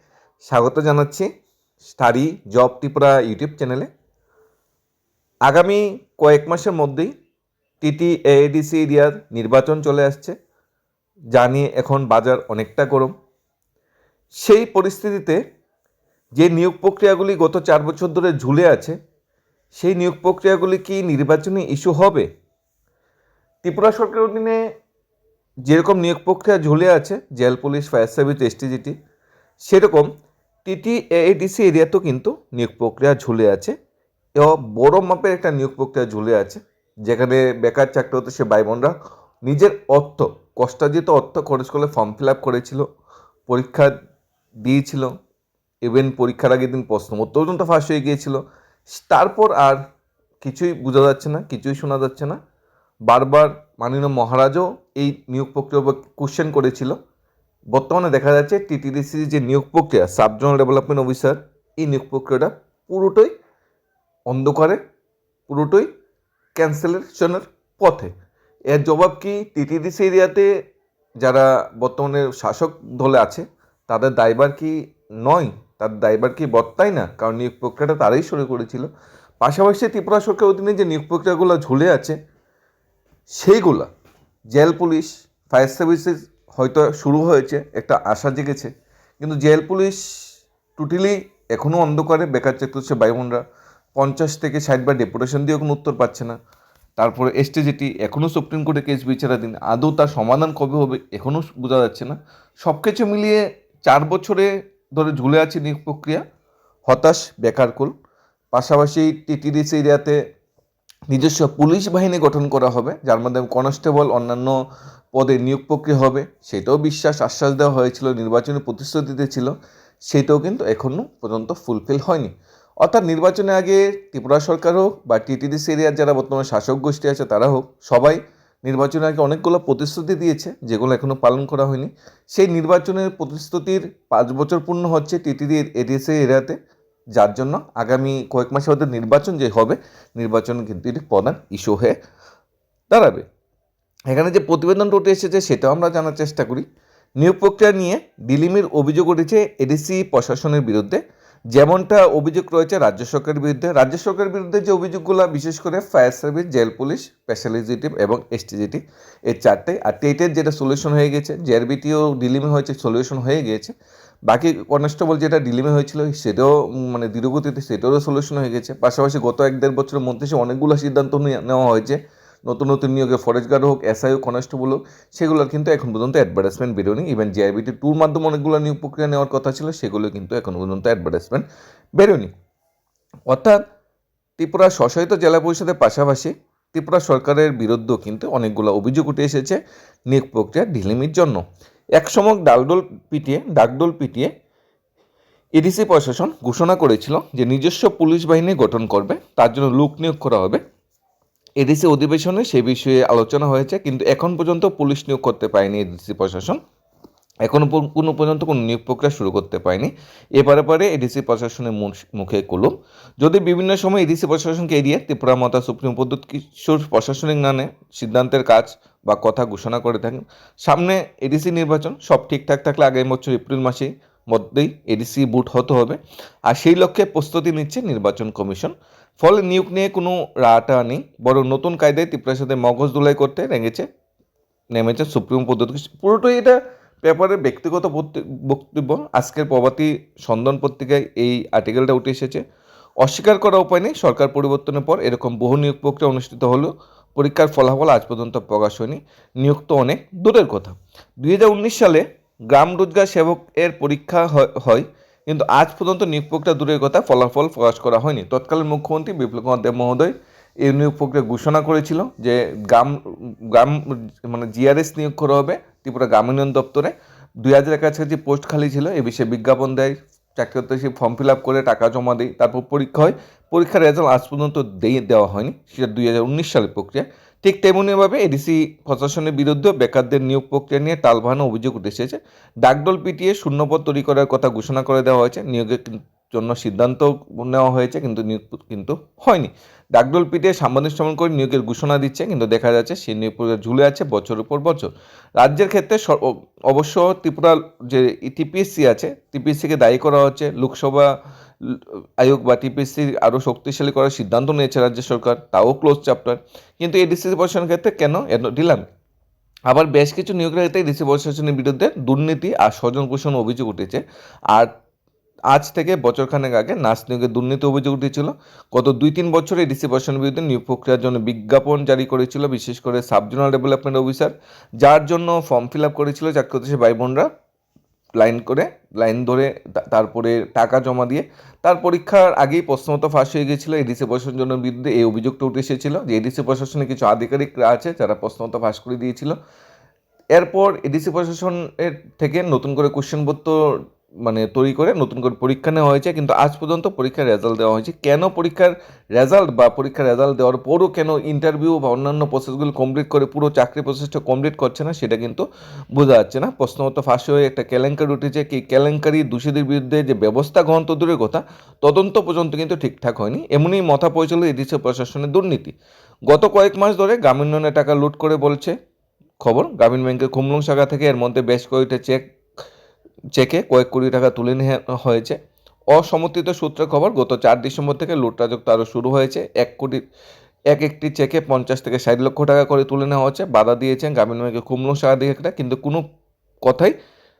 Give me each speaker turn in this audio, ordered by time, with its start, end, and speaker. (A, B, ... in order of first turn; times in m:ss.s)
0:00.5-0:01.3 A
0:01.9-0:03.9 A
0:05.5-0:07.1 A
0:07.8-0:10.3 A
0:11.3-0:13.1 A
0:14.4-0:15.4 A
0:16.4-0:19.0 A
0:19.8-0:22.3 A
0:23.6-0:24.6 A
0:25.6-0:28.9 A
0:29.6-0:30.1 A
0:30.6-0:33.7 A
0:34.4-0:42.8 A
0:43.5-0:43.9 A
0:44.6-0:45.1 A
0:45.8-0:49.8 A
0:50.4-0:52.4 A
0:53.1-0:57.0 A
0:57.7-1:03.3 A
1:04.3-1:04.8 A
1:05.5-1:05.9 A
1:06.6-1:08.1 A
1:08.7-1:10.5 A
1:11.2-1:18.9 A
1:19.4-1:22.2 A
1:23.4-1:23.9 A
1:24.5-1:30.0 A
1:30.8-1:33.4 A
1:34.0-1:36.3 A
1:37.0-1:46.2 A
1:46.9-1:47.9 A
1:48.5-1:50.2 A
1:51.1-1:54.6 A
1:55.1-1:59.5 A
2:00.1-2:16.6 A
2:17.2-2:22.0 A
2:22.9-2:23.2 A
2:24.1-2:26.6 A
2:27.2-2:43.7 A
2:44.3-3:01.4 A
3:02.0-3:02.3 A
3:03.3-3:03.6 A
3:04.4-3:09.6 A
3:10.1-3:11.4 A
3:12.0-3:14.3 A
3:15.6-3:20.6 A
3:21.6-3:26.6 A
3:27.4-3:53.8 A
3:54.7-4:02.4 A
4:03.0-5:01.1 A
5:01.6-5:08.8 A
5:09.7-5:14.7 A
5:15.5-5:27.3 A
5:28.2-5:39.4 A
5:40.3-5:43.6 A
5:44.2-5:55.4 A
5:55.9-6:05.7 A
6:06.3-6:08.7 A
6:09.4-6:12.3 A
6:13.3-6:15.4 A
6:15.9-6:20.0 A
6:20.7-6:26.0 A
6:26.6-6:27.0 A